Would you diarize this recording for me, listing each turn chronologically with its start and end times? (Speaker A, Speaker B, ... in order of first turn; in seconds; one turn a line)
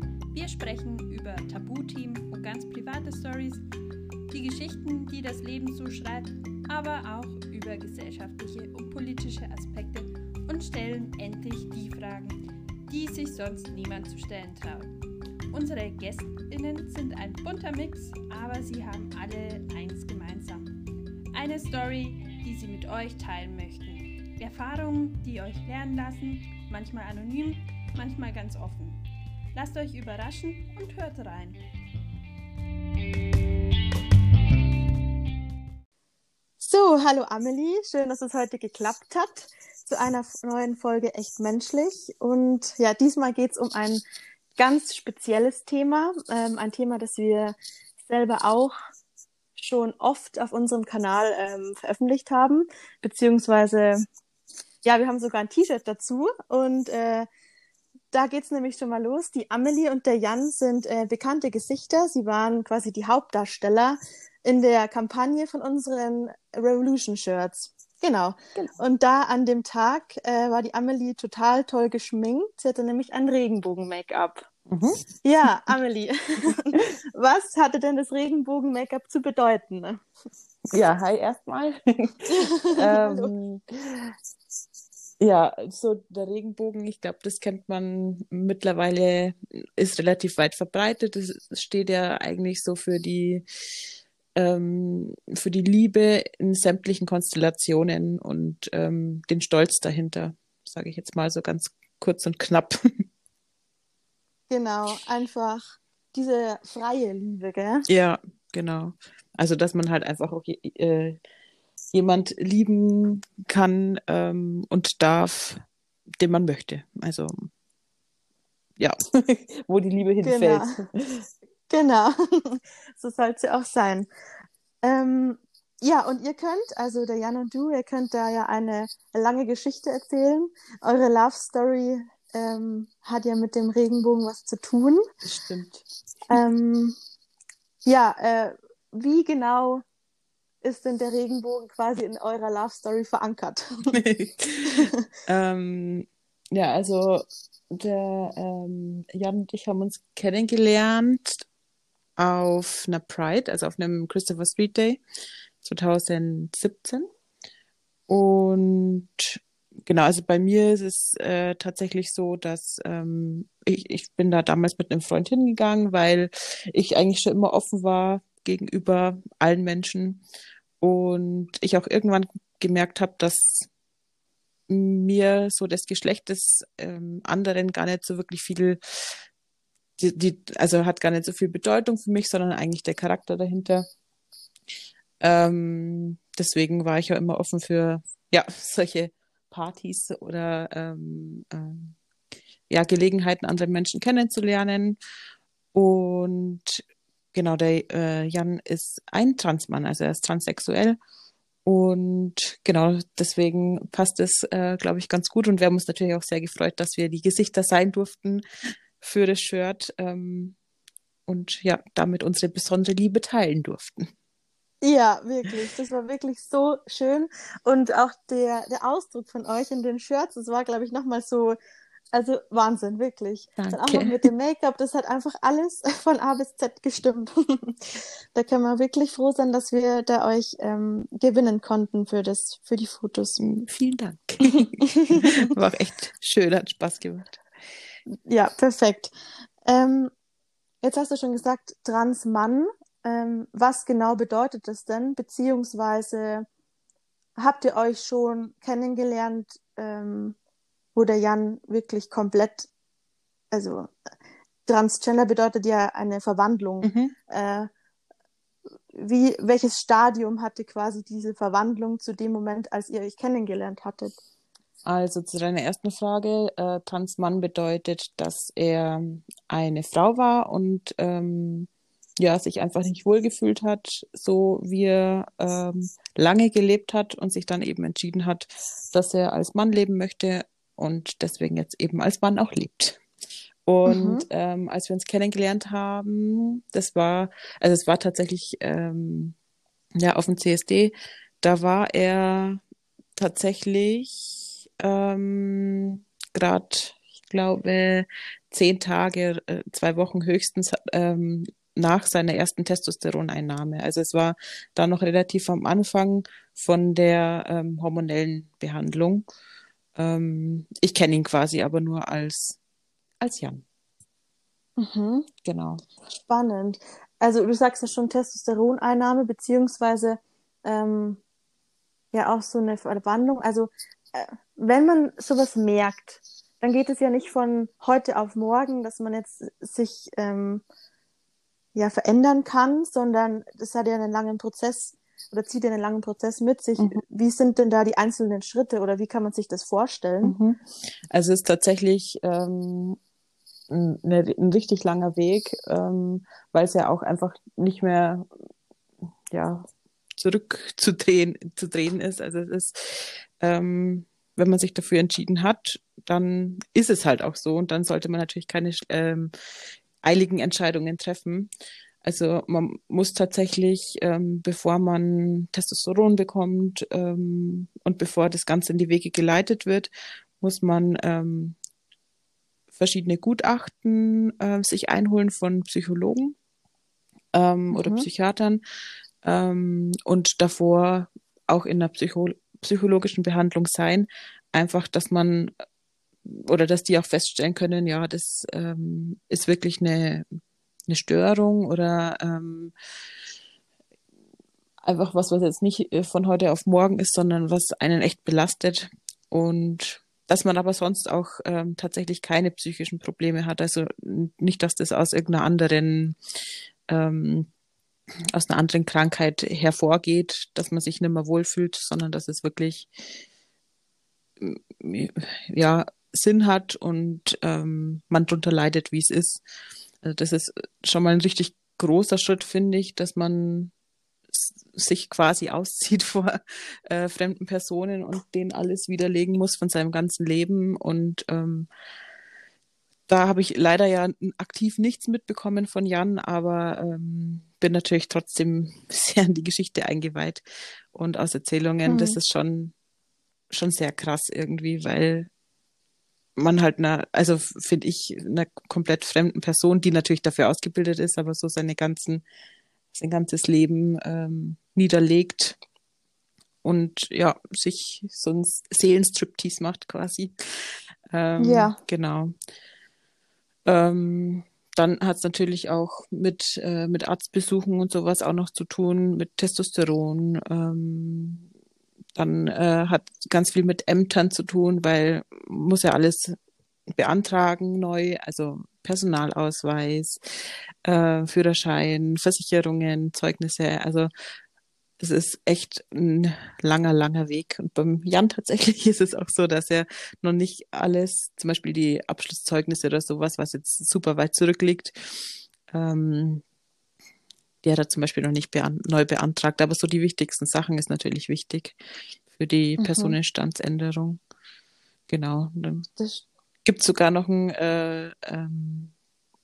Speaker A: 0.3-3.6
Speaker A: 4.3-14.9
Speaker A: 15.5-20.7
Speaker A: 21.3-29.0
Speaker A: 29.5-31.6
Speaker B: 36.6-44.0
Speaker B: 44.6-48.7
Speaker B: 49.6-54.0
Speaker B: 54.8-57.3
Speaker B: 58.1-74.5
Speaker C: 74.7-75.0
Speaker B: 75.2-80.0
Speaker C: 80.7-82.1
Speaker B: 82.3-83.3
Speaker C: 82.7-84.1
Speaker C: 85.2-93.4
Speaker C: 94.3-103.0
Speaker B: 104.5-107.8
Speaker C: 107.9-111.2
Speaker C: 111.9-115.6
Speaker C: 116.2-117.5
Speaker C: 118.8-121.3
Speaker B: 120.2-120.8
Speaker B: 121.7-124.1
Speaker B: 124.8-135.0
Speaker C: 135.2-136.4
Speaker B: 136.3-136.9
Speaker B: 137.8-139.8
Speaker B: 140.6-144.0
Speaker C: 143.9-151.4
Speaker C: 152.2-155.0
Speaker C: 155.6-157.1
Speaker C: 158.1-170.2
Speaker C: 170.8-173.7
Speaker C: 174.7-179.2
Speaker C: 180.0-183.9
Speaker C: 185.2-191.9
Speaker C: 192.7-195.0
Speaker C: 195.7-196.8
Speaker C: 197.3-201.0
Speaker C: 201.6-208.4
Speaker C: 209.0-210.6
Speaker C: 211.3-214.1
Speaker B: 214.8-221.6
Speaker B: 222.1-233.4
Speaker C: 223.6-224.2
Speaker C: 233.4-237.4
Speaker B: 235.0-235.4
Speaker B: 238.2-239.1
Speaker B: 239.6-240.1
Speaker B: 240.8-246.4
Speaker B: 247.4-250.3
Speaker B: 250.9-252.7
Speaker B: 253.5-253.9
Speaker B: 254.7-257.7
Speaker C: 256.8-257.1
Speaker B: 258.9-264.1
Speaker C: 264.8-283.0
Speaker C: 283.6-289.3
Speaker B: 283.8-284.2
Speaker C: 290.0-292.6
Speaker C: 293.1-309.2
Speaker C: 309.9-312.6
Speaker C: 313.2-313.6
Speaker B: 314.8-315.3
Speaker C: 315.4-315.8
Speaker B: 316.3-321.2
Speaker B: 322.1-330.6
Speaker B: 331.7-340.4
Speaker C: 340.2-343.0
Speaker C: 343.7-348.3
Speaker C: 349.3-359.3
Speaker C: 360.0-361.5
Speaker C: 362.0-371.6
Speaker C: 372.7-376.4
Speaker C: 377.3-378.6
Speaker B: 377.7-378.1
Speaker C: 379.2-385.5
Speaker C: 386.2-390.2
Speaker C: 390.9-392.7
Speaker C: 394.8-406.2
Speaker C: 406.9-407.5
Speaker C: 408.3-412.9
Speaker C: 414.4-419.4
Speaker C: 420.0-423.7
Speaker C: 424.3-431.7
Speaker C: 433.1-442.7
Speaker B: 441.9-442.2
Speaker C: 443.5-445.3
Speaker C: 446.4-452.2
Speaker C: 452.9-455.6
Speaker C: 456.6-462.3
Speaker B: 461.4-461.8
Speaker C: 463.6-471.4
Speaker C: 472.1-476.4
Speaker C: 476.9-484.1
Speaker C: 485.0-496.4
Speaker C: 497.6-501.8
Speaker C: 502.3-504.2
Speaker B: 502.8-503.1
Speaker C: 505.1-505.9
Speaker B: 506.0-506.2
Speaker C: 506.6-508.9